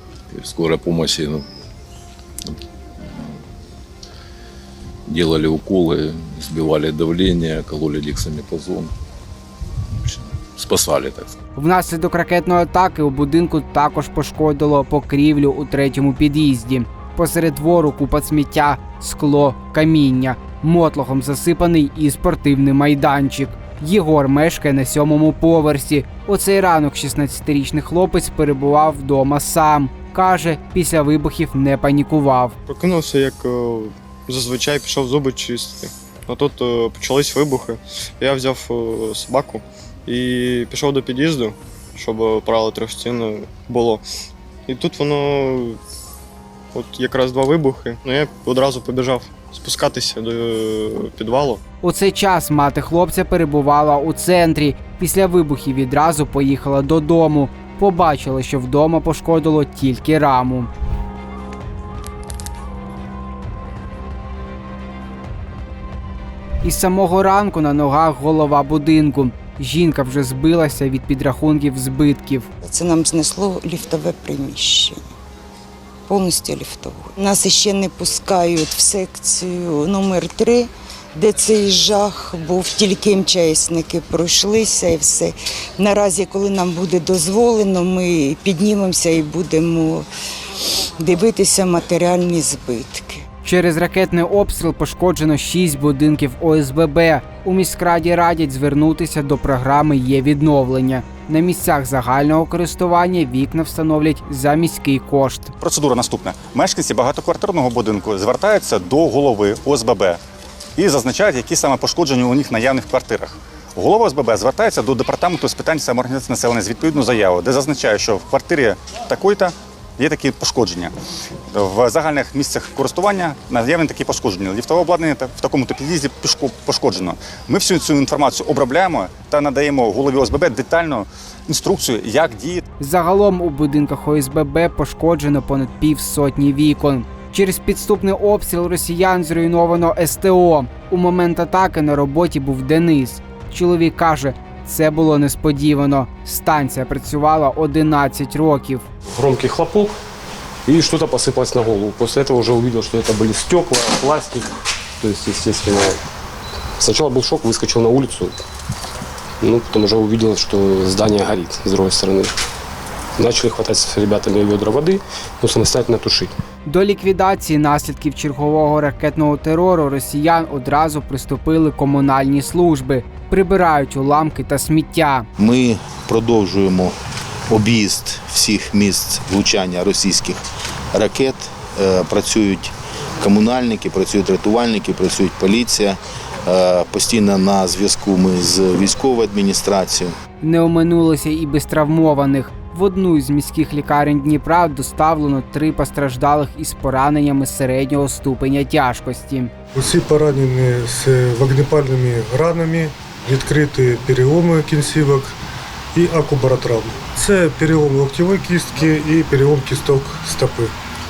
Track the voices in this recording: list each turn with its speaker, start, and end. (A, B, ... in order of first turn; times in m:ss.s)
0:00.3-0:01.4 A
0:03.0-0:03.3 A
0:05.1-0:08.9 A
0:10.0-0:11.4 A
0:11.6-0:32.6 B
0:32.7-0:44.0 C
0:44.7-0:45.8 C
0:46.7-0:51.6 C
0:51.8-1:00.7 B
1:06.6-1:12.5 B
1:12.6-1:15.0 D
1:16.1-1:30.1 D
1:30.6-1:33.2 D
1:33.4-1:45.5 B
1:45.6-1:50.2 E
1:50.8-2:00.9 E
2:01.5-2:12.6 E
2:12.8-2:28.9 B
2:29.1-2:30.0 F
2:30.6-2:36.0 F
2:36.8-2:38.4 F
2:39.4-2:42.3 F
2:43.2-2:46.3 F
2:46.6-2:55.3 B
2:55.4-2:56.9 G
2:57.5-3:00.4 G
3:00.9-3:10.1 G
3:10.4-3:19.5 B
3:19.7-3:25.4 H
3:25.9-3:30.7 H